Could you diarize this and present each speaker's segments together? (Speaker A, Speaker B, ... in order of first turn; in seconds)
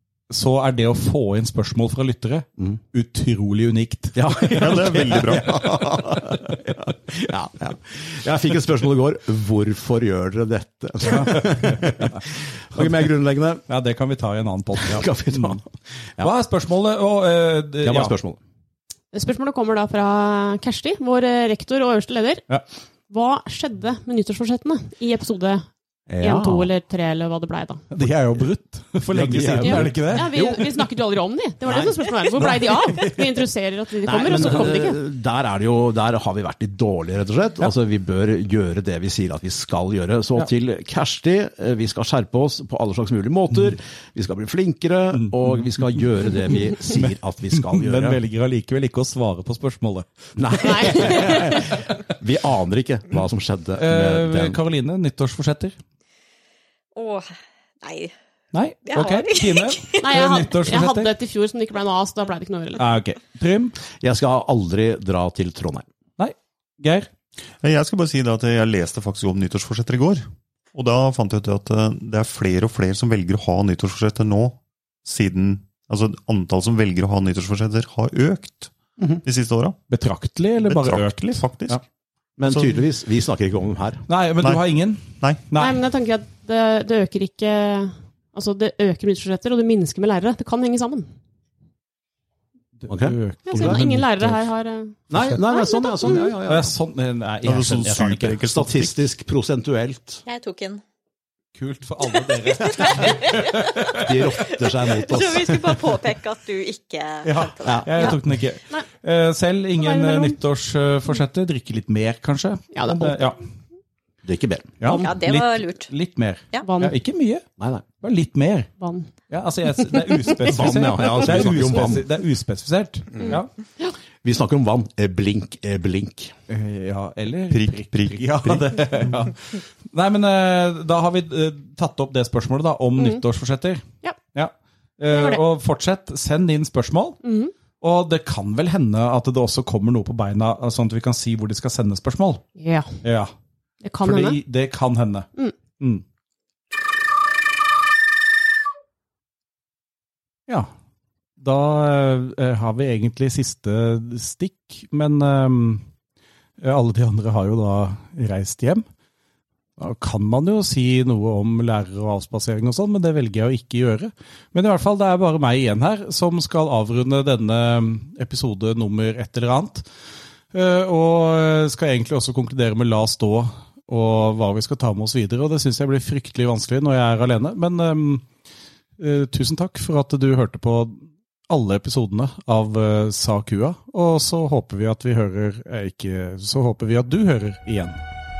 Speaker A: 0.3-5.5, 6.1-6.6, 11.0-12.2, 12.7-13.0, 13.7-15.6, 16.2-18.1, 27.9-30.4, 32.3-33.2, 45.2-46.0, 47.0-51.8, 53.8-55.8, 58.5-61.1, 62.8-63.8, 66.2-67.1, 79.9-81.8, 84.1-85.8, 92.8-94.4, 96.4-98.5, 101.5-104.1, 107.2-113.5, 114.8-117.4, 118.0-118.7, 119.3-123.5, 126.5-137.2, 137.8-142.4, 143.0-143.3, 144.0-145.3, 145.8-146.0, 151.4-155.8, 156.6-158.9, 159.8-169.9, 170.5-178.3, 179.0-188.0
Speaker B: 4.1-13.6, 14.8-16.3, 17.8-18.4, 26.1-26.7, 29.1-30.7, 34.0-48.2, 50.4-54.6, 64.0-65.8, 79.0-79.2, 82.4-84.0, 92.9-93.8, 95.1-96.7, 98.5-100.2, 103.9-105.7, 107.6-108.2, 114.2-114.8, 117.6-117.8, 120.4-122.0, 124.2-126.3
Speaker C: 4.5-5.6, 67.6-78.7, 79.2-79.8, 80.6-81.8, 82.5-82.8, 84.4-85.4, 97.4-99.0, 127.5-129.2
Speaker D: 19.1-22.4, 23.1-25.7, 26.2-27.8, 29.6-35.0, 50.6-51.7, 60.0-62.9, 85.5-91.1, 93.5-96.3, 109.8-110.4, 112.7-113.2, 116.6-117.0, 118.8-119.1, 123.2-123.9, 135.1-135.4, 137.2-137.5, 142.6-143.0, 143.8-144.4
Speaker E: 56.9-57.3, 57.8-58.1, 58.9-60.0, 100.2-100.8, 102.6-108.1, 114.9-115.9